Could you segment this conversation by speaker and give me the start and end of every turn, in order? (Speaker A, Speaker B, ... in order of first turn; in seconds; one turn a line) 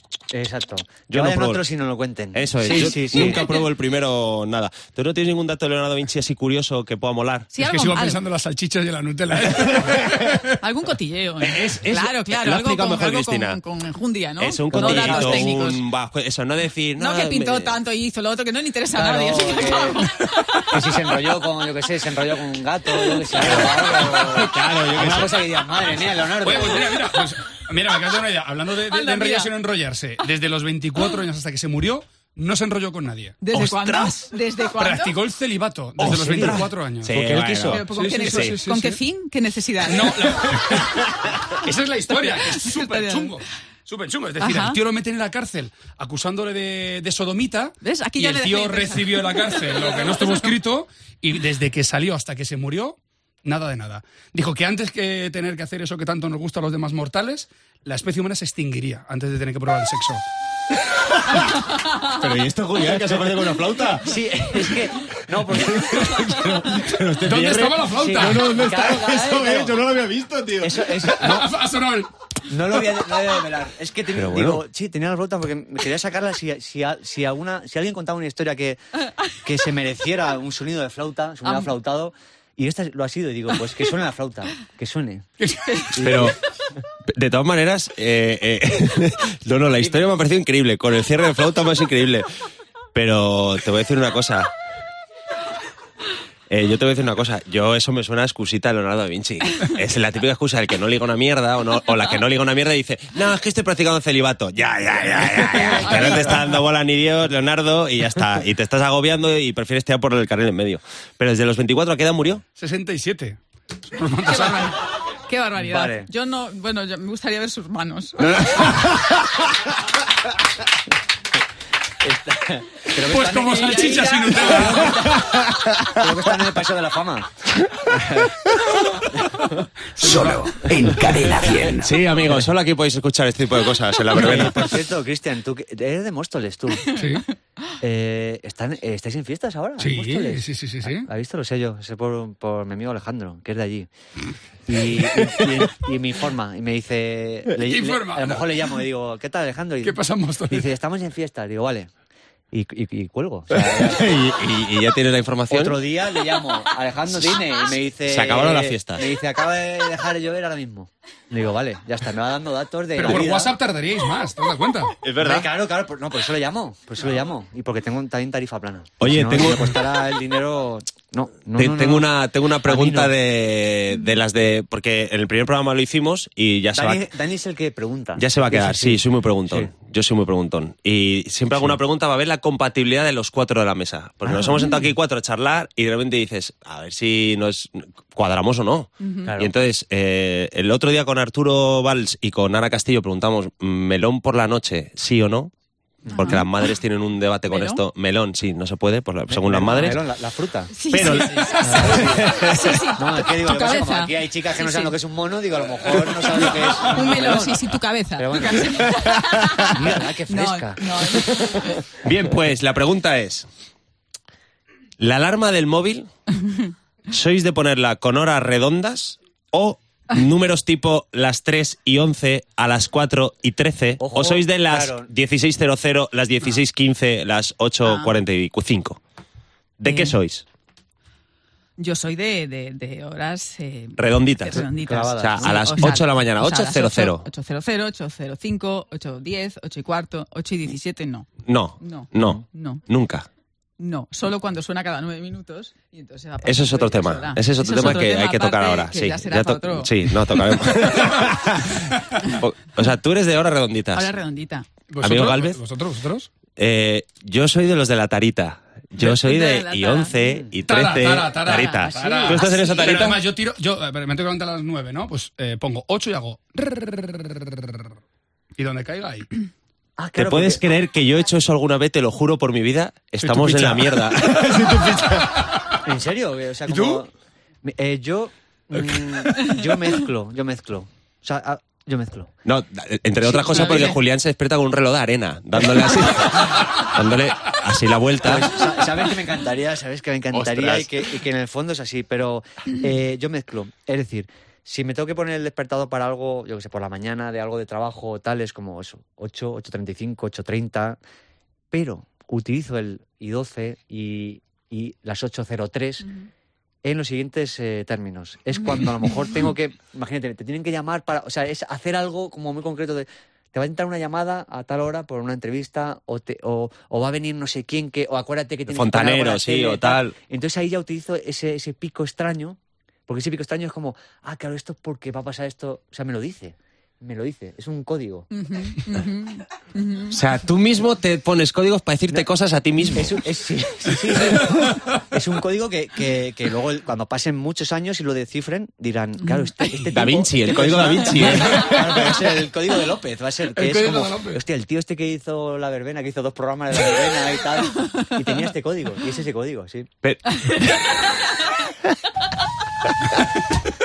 Speaker A: 0.3-3.4
Speaker B: 1.1-1.6
Speaker B: 2.3-7.5
Speaker C: 7.5-8.2
Speaker D: 7.6-10.6
Speaker B: 9.5-10.4
Speaker C: 10.6-15.8
Speaker B: 11.4-13.6
Speaker B: 14.4-17.8
Speaker A: 14.7-15.5
Speaker C: 17.0-20.8
Speaker A: 18.9-20.1
Speaker A: 20.7-27.0
Speaker B: 23.3-26.0
Speaker D: 26.3-39.0
Speaker C: 28.9-29.5
Speaker C: 33.4-35.2
Speaker A: 36.0-37.7
Speaker B: 36.0-38.6
Speaker C: 37.6-40.5
Speaker D: 39.8-60.2
Speaker C: 42.1-43.4
Speaker C: 44.4-44.8
Speaker C: 47.8-50.5
Speaker B: 61.2-70.9
Speaker A: 64.0-66.5
Speaker D: 67.2-68.5
Speaker A: 68.0-69.8
Speaker A: 70.6-71.5
Speaker D: 71.1-72.1
Speaker A: 72.5-85.3
Speaker B: 74.1-74.6
Speaker C: 81.5-81.7
Speaker D: 85.4-85.9
Speaker A: 85.9-86.4
Speaker B: 86.0-86.4
Speaker B: 87.1-92.3
Speaker B: 92.9-94.5
Speaker B: 96.5-112.4
Speaker A: 105.3-106.4
Speaker C: 105.7-106.5
Speaker D: 112.6-114.8
Speaker C: 114.3-118.8
Speaker A: 115.6-116.1
Speaker A: 122.0-128.4
Speaker D: 123.0-125.0
Speaker B: 125.0-125.8
Speaker A: 129.1-129.7
Speaker D: 130.0-130.6
Speaker E: 130.0-131.9
Speaker B: 131.7-134.7
Speaker A: 134.1-136.9
Speaker D: 134.2-134.6
Speaker C: 136.9-137.2
Speaker D: 136.9-137.3
Speaker A: 137.8-143.9
Speaker D: 139.8-141.1
Speaker A: 144.7-151.9
Speaker B: 145.3-145.6
Speaker D: 147.6-148.5
Speaker D: 149.8-150.7
Speaker A: 152.5-154.1
Speaker B: 153.5-155.8
Speaker A: 155.5-163.6
Speaker B: 158.0-159.1
Speaker D: 162.9-165.0
Speaker B: 165.0-165.5
Speaker A: 165.2-172.1
Speaker B: 169.0-169.8
Speaker B: 171.6-177.1
Speaker A: 172.6-173.1
Speaker A: 176.7-179.7
Speaker B: 178.2-195.5
Speaker A: 184.3-184.8
Speaker C: 189.0-189.3
Speaker A: 189.2-189.5
Speaker A: 196.0-196.4
Speaker B: 196.1-200.0
Speaker C: 196.1-196.5
Speaker C: 197.5-197.8
Speaker A: 199.3-200.7
Speaker C: 200.7-205.0
Speaker B: 200.9-202.8
Speaker A: 201.6-207.6
Speaker C: 206.8-211.8
Speaker A: 208.2-208.9
Speaker B: 208.9-209.7
Speaker A: 209.6-211.3
Speaker B: 212.0-213.5
Speaker B: 215.0-216.1
Speaker B: 217.1-229.0
Speaker A: 224.0-225.1
Speaker C: 227.8-228.2
Speaker B: 229.8-230.4
Speaker C: 229.8-230.2
Speaker C: 231.8-242.8
Speaker B: 234.0-234.7
Speaker A: 234.6-235.7
Speaker B: 235.2-237.3
Speaker B: 241.4-243.3
Speaker C: 243.8-250.0
Speaker B: 246.4-254.1
Speaker C: 253.9-254.7
Speaker D: 254.9-256.3
Speaker B: 255.0-255.6
Speaker B: 256.6-263.2
Speaker C: 259.0-260.3
Speaker A: 260.2-260.5
Speaker D: 260.7-268.0
Speaker C: 261.4-263.1
Speaker A: 261.9-262.4
Speaker D: 268.6-269.3
Speaker A: 270.0-270.6
Speaker B: 270.2-275.5
Speaker D: 273.2-275.7
Speaker A: 275.8-277.1
Speaker D: 276.7-277.0
Speaker A: 277.6-282.3
Speaker B: 282.4-288.7
Speaker A: 283.2-283.9
Speaker C: 283.5-284.0
Speaker A: 288.2-301.0
Speaker B: 290.3-291.1
Speaker A: 301.7-306.1
Speaker C: 306.0-306.3
Speaker A: 306.8-328.3
Speaker B: 318.7-320.1
Speaker C: 328.3-330.2
Speaker B: 330.1-333.2
Speaker A: 332.9-349.9
Speaker B: 339.9-342.1
Speaker D: 341.5-342.1
Speaker D: 343.6-344.4
Speaker C: 347.8-348.0
Speaker B: 350.0-350.4
Speaker C: 350.3-351.0
Speaker B: 352.9-353.4